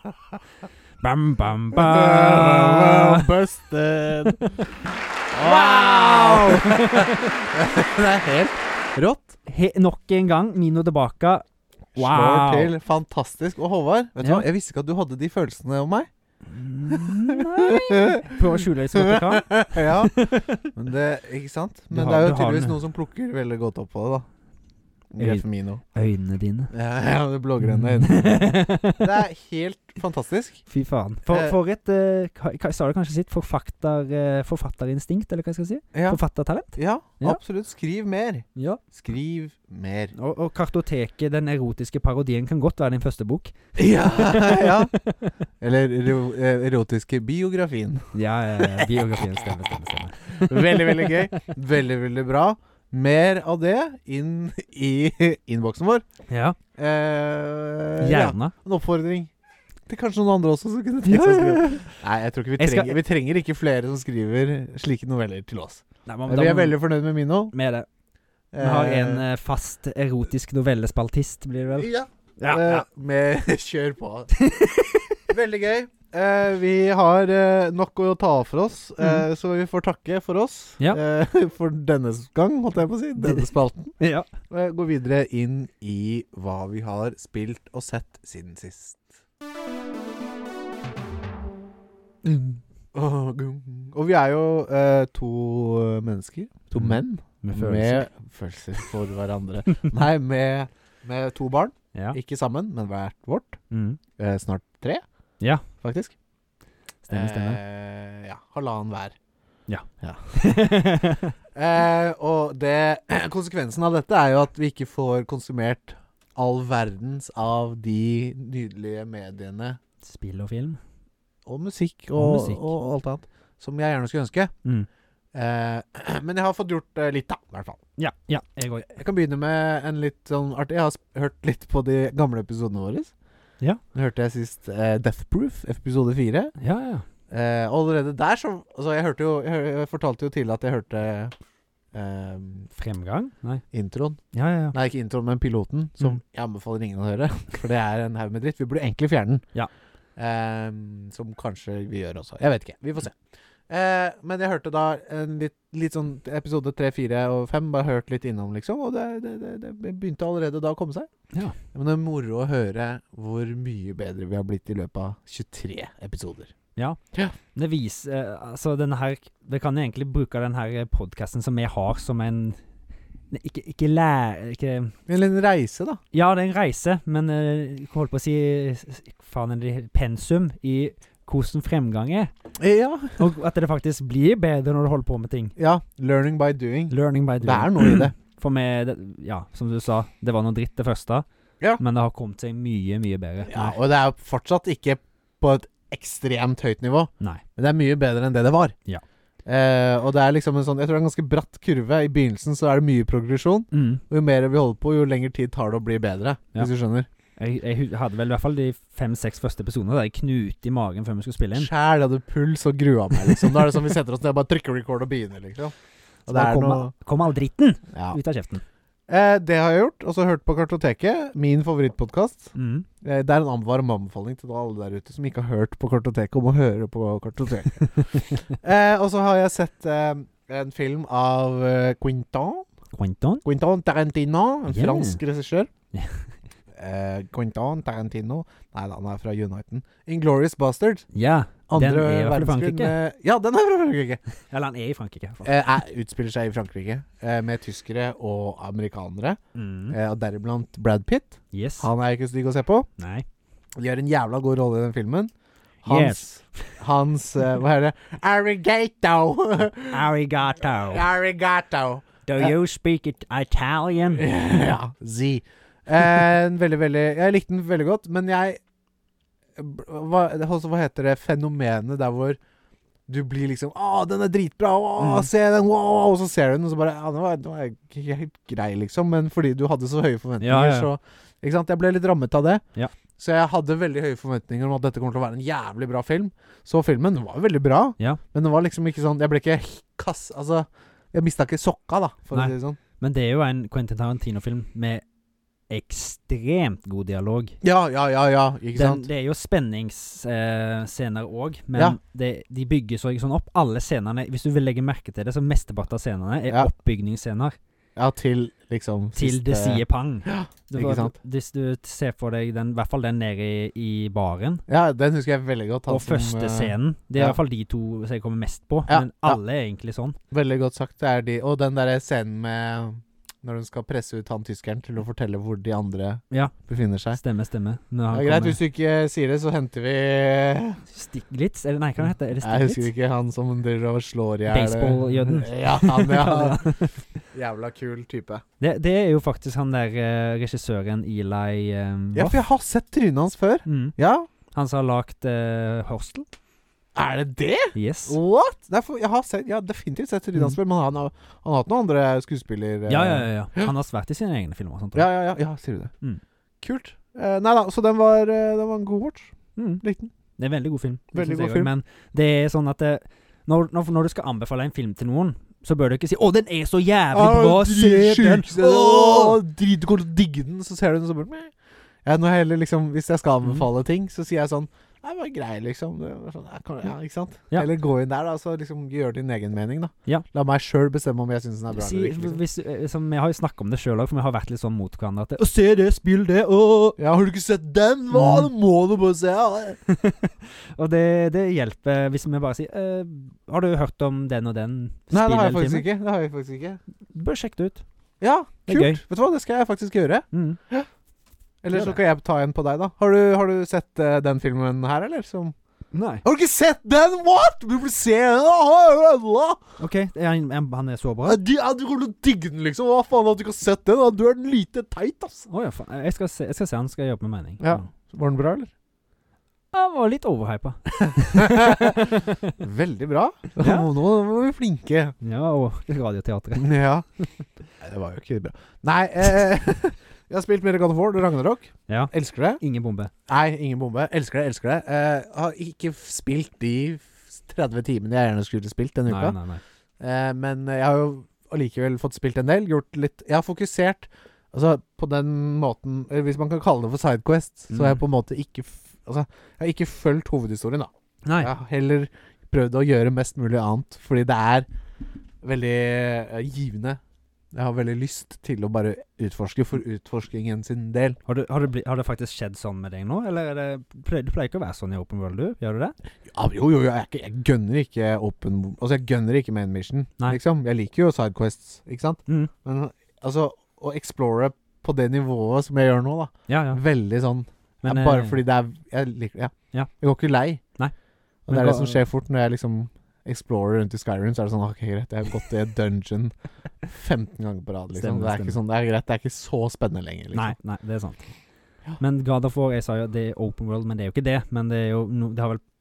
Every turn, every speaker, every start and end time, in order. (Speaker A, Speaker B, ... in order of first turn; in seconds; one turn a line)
Speaker A: 1.0-3.4
Speaker B: 1.7-4.4
Speaker A: 4.2-4.7
Speaker B: 5.3-9.4
Speaker A: 5.4-7.4
Speaker A: 9.4-11.4
Speaker B: 11.9-16.1
Speaker A: 12.0-12.7
Speaker A: 16.5-20.7
Speaker B: 16.9-18.4
Speaker B: 18.9-24.2
Speaker A: 21.9-22.8
Speaker B: 25.1-25.8
Speaker A: 25.2-26.7
Speaker B: 26.7-30.6
Speaker A: 27.6-29.1
Speaker A: 30.7-37.4
Speaker B: 31.3-31.6
Speaker B: 35.9-36.2
Speaker B: 36.8-40.1
Speaker A: 38.6-38.8
Speaker A: 40.1-45.4
Speaker B: 43.8-44.9
Speaker B: 45.6-48.1
Speaker A: 48.1-51.4
Speaker B: 48.6-48.9
Speaker B: 50.4-56.0
Speaker A: 56.3-56.6
Speaker B: 56.8-59.3
Speaker A: 58.0-58.5
Speaker B: 59.9-67.5
Speaker A: 61.0-62.0
Speaker A: 62.6-63.0
Speaker A: 66.1-66.8
Speaker A: 67.5-67.9
Speaker B: 68.5-69.2
Speaker A: 68.6-72.8
Speaker B: 71.8-74.3
Speaker A: 74.3-75.2
Speaker B: 75.3-83.9
Speaker A: 83.2-83.5
Speaker A: 84.0-84.3
Speaker B: 84.5-89.1
Speaker B: 92.9-103.6
Speaker A: 96.8-98.0
Speaker A: 103.7-104.0
Speaker B: 104.2-105.0
Speaker B: 105.8-106.1
Speaker A: 107.1-107.6
Speaker B: 107.1-109.2
Speaker A: 109.7-111.3
Speaker B: 110.0-110.3
Speaker B: 111.5-119.8
Speaker A: 120.0-120.8
Speaker B: 121.5-124.5
Speaker A: 122.2-122.7
Speaker B: 125.3-127.8
Speaker A: 128.0-128.9
Speaker B: 128.9-133.1
Speaker B: 133.9-136.6
Speaker A: 136.6-137.1
Speaker B: 137.3-141.3
Speaker B: 141.9-142.7
Speaker A: 142.8-143.6
Speaker B: 143.7-144.2
Speaker A: 144.3-144.8
Speaker B: 144.7-149.4
Speaker B: 150.2-153.2
Speaker B: 153.7-161.1
Speaker B: 161.7-166.5
Speaker A: 167.5-172.6
Speaker A: 173.3-174.9
Speaker B: 175.1-176.0
Speaker A: 176.1-182.3
Speaker B: 182.6-183.3
Speaker A: 183.2-185.6
Speaker B: 185.6-188.2
Speaker A: 186.9-191.2
Speaker A: 191.8-193.8
Speaker B: 193.5-198.8
Speaker B: 199.4-207.1
Speaker A: 203.7-204.0
Speaker A: 207.4-211.7
Speaker B: 211.6-215.7
Speaker B: 216.3-216.9
Speaker A: 216.3-218.6
Speaker B: 217.9-218.2
Speaker B: 219.1-232.7
Speaker A: 222.6-222.9
Speaker A: 227.8-228.3
Speaker A: 232.9-233.4
Speaker B: 233.4-235.7
Speaker A: 234.7-235.2
Speaker A: 235.9-236.3
Speaker B: 236.8-241.1
Speaker A: 241.1-242.9
Speaker B: 241.7-244.2
Speaker A: 244.5-245.5
Speaker B: 245.4-249.4
Speaker A: 249.6-250.0
Speaker B: 249.9-252.9
Speaker A: 251.5-251.9
Speaker A: 253.0-253.3
Speaker B: 253.8-255.3
Speaker B: 255.8-260.1
Speaker A: 255.9-256.8
Speaker A: 259.9-261.1
Speaker B: 260.8-262.5
Speaker A: 262.3-264.3
Speaker B: 264.2-268.6
Speaker B: 269.6-272.4
Speaker B: 273.1-282.6
Speaker A: 275.0-275.3
Speaker A: 280.4-280.9
Speaker B: 283.2-292.8
Speaker A: 292.3-295.0
Speaker A: 295.7-297.6
Speaker B: 297.6-299.1
Speaker A: 298.8-307.6
Speaker B: 308.0-311.1
Speaker A: 309.1-314.6
Speaker B: 314.7-317.4
Speaker A: 315.9-320.2
Speaker B: 318.9-319.4
Speaker B: 320.3-327.2
Speaker A: 327.1-328.6
Speaker B: 328.1-330.8
Speaker A: 330.9-332.9
Speaker B: 332.4-336.8
Speaker A: 334.5-337.1
Speaker B: 337.3-338.4
Speaker A: 338.6-342.4
Speaker B: 342.1-344.3
Speaker A: 343.7-343.9
Speaker A: 344.6-346.3
Speaker B: 346.9-353.7
Speaker A: 347.8-348.2
Speaker A: 352.9-355.1
Speaker B: 354.9-355.9
Speaker B: 356.6-360.1
Speaker A: 359.6-359.8
Speaker A: 360.4-369.4
Speaker B: 361.1-361.7
Speaker B: 367.1-371.5
Speaker B: 372.1-382.4
Speaker A: 381.7-387.0
Speaker B: 387.0-389.8
Speaker A: 388.1-388.5
Speaker A: 389.9-395.9
Speaker B: 395.1-396.8
Speaker A: 397.1-397.8
Speaker B: 398.2-400.9
Speaker A: 398.7-399.0
Speaker A: 400.3-400.6
Speaker B: 401.6-405.6
Speaker A: 401.7-402.0
Speaker A: 405.9-406.2
Speaker B: 406.2-409.6
Speaker A: 409.8-411.4
Speaker B: 411.2-415.5
Speaker A: 415.5-417.9
Speaker B: 417.6-418.7
Speaker A: 419.7-422.6
Speaker B: 421.3-425.1
Speaker A: 423.6-423.9
Speaker A: 425.2-427.3
Speaker B: 426.6-427.1
Speaker B: 427.8-432.6
Speaker A: 431.9-433.1
Speaker B: 433.3-439.4
Speaker A: 439.1-439.6
Speaker B: 440.0-454.7
Speaker A: 447.7-448.0
Speaker A: 451.2-451.5
Speaker B: 455.4-457.0
Speaker B: 457.5-461.2
Speaker A: 461.3-465.9
Speaker B: 466.3-480.6
Speaker A: 476.5-476.8
Speaker A: 477.8-478.4
Speaker B: 481.5-486.3
Speaker A: 481.5-482.0
Speaker B: 486.8-490.6
Speaker A: 487.9-488.6
Speaker A: 490.3-491.3
Speaker A: 492.0-495.6